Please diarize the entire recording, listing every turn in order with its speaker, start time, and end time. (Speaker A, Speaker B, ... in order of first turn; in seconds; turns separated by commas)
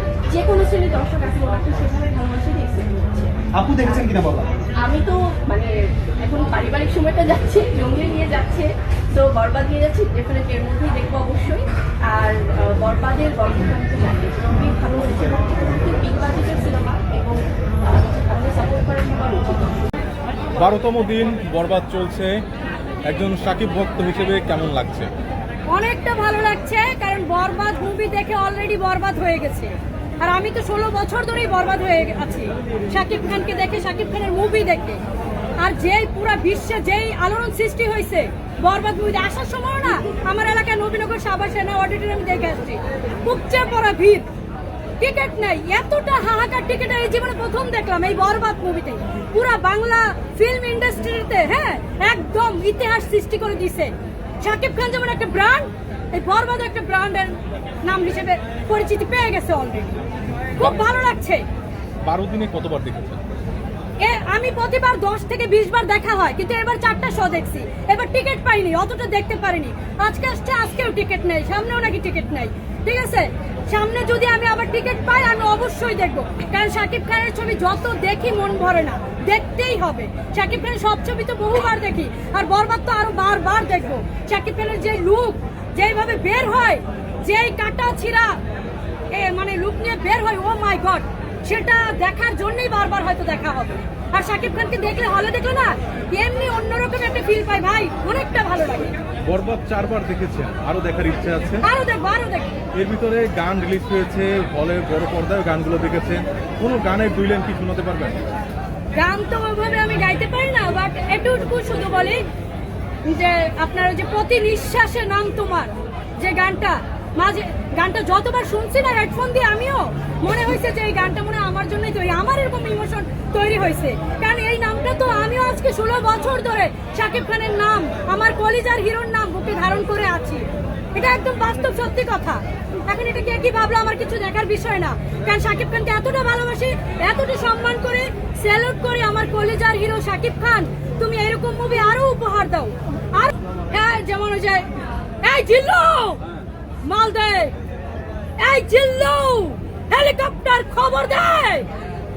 Speaker A: 0.3-4.1, Speaker B: 3.6-4.2, Speaker A: 4.8-19.9, Speaker B: 20.6-22.3, Speaker B: 23.1-25.1, Speaker C: 25.7-35.0, Speaker C: 35.6-44.2, Speaker C: 45.0-59.9, Speaker C: 60.6-61.4, Speaker B: 60.6-60.8, Speaker B: 62.0-63.2, Speaker C: 64.0-88.4, Speaker C: 89.1-99.0, Speaker B: 99.2-101.6, Speaker C: 101.6-102.6, Speaker B: 102.7-108.2, Speaker C: 109.0-112.2, Speaker C: 113.0-144.7, Speaker C: 145.2-146.2, Speaker C: 146.8-147.5, Speaker C: 148.4-151.7